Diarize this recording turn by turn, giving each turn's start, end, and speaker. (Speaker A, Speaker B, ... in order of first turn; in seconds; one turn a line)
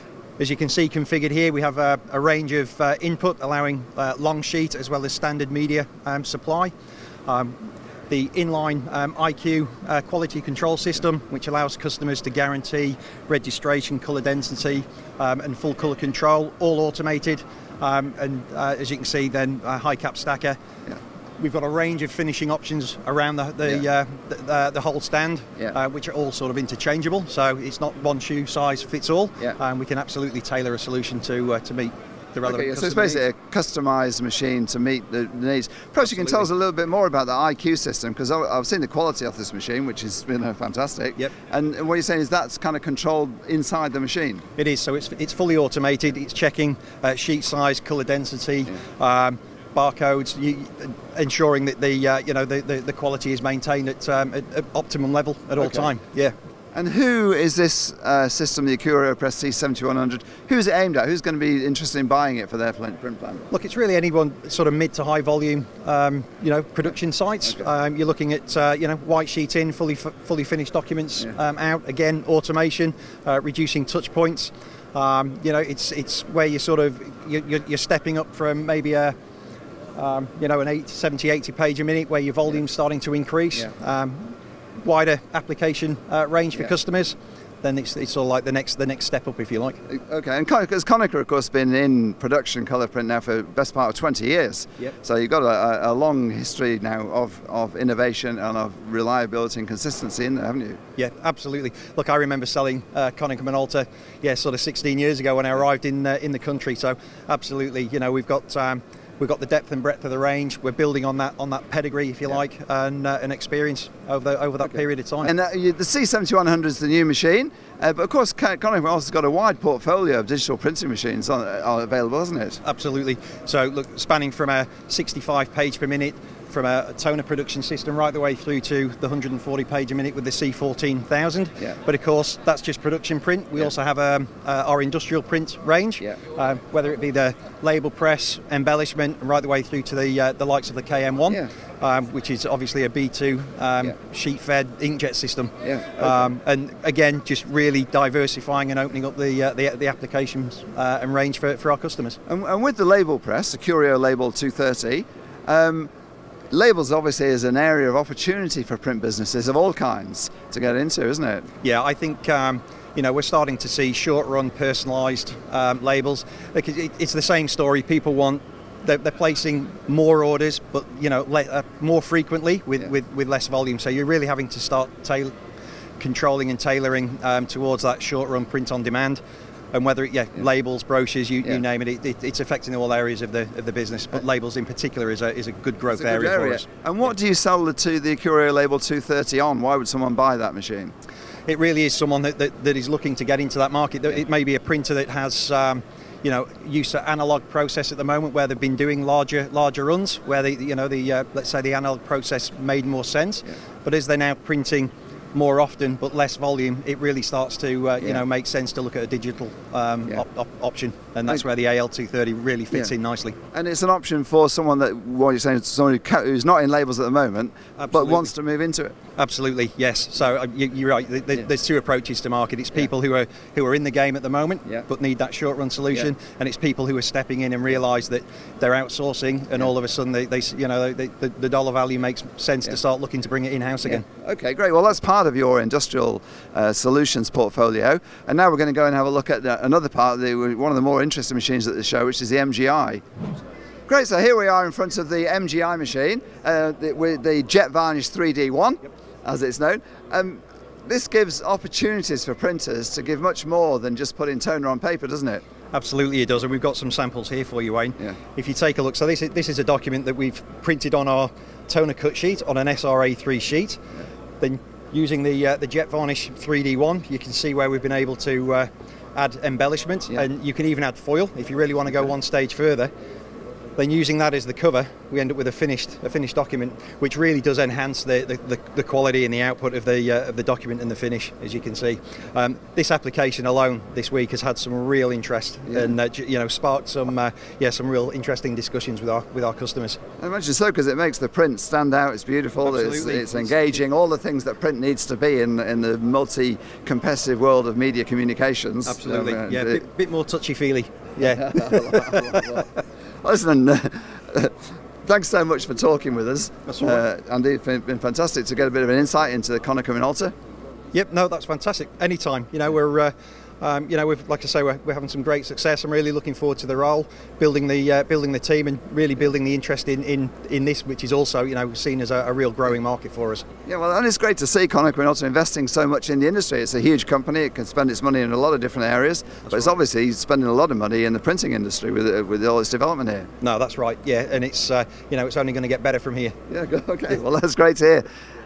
Speaker A: 0.4-6.7
Speaker A: 7.3-7.6
Speaker A: 8.1-20.6
Speaker A: 21.4-33.2
Speaker B: 32.4-44.4
Speaker A: 36.0-36.5
Speaker A: 44.6-56.3
Speaker B: 55.6-55.9
Speaker B: 56.7-63.5
Speaker A: 63.5-79.1
Speaker A: 80.0-89.8
Speaker B: 89.9-100.8
Speaker A: 101.0-115.3
Speaker B: 115.2-122.6
Speaker A: 122.6-152.2
Speaker B: 145.6-146.2
Speaker B: 152.3-155.9
Speaker B: 156.5-161.4
Speaker A: 161.6-175.3
Speaker A: 176.0-179.2
Speaker A: 179.7-186.7
Speaker B: 185.9-190.9
Speaker A: 191.5-213.4
Speaker B: 213.5-218.9
Speaker A: 217.8-218.3
Speaker A: 219.2-234.0
Speaker B: 233.9-243.0
Speaker B: 243.9-255.4
Speaker A: 255.7-263.8
Speaker A: 264.4-272.9
Speaker A: 273.8-290.0
Speaker B: 290.2-299.8
Speaker A: 292.6-293.8
Speaker A: 298.9-302.4
Speaker B: 301.2-310.3
Speaker A: 306.6-307.0
Speaker A: 310.9-323.4
Speaker B: 323.6-333.3
Speaker A: 329.5-329.7
Speaker A: 333.4-336.4
Speaker B: 336.5-338.0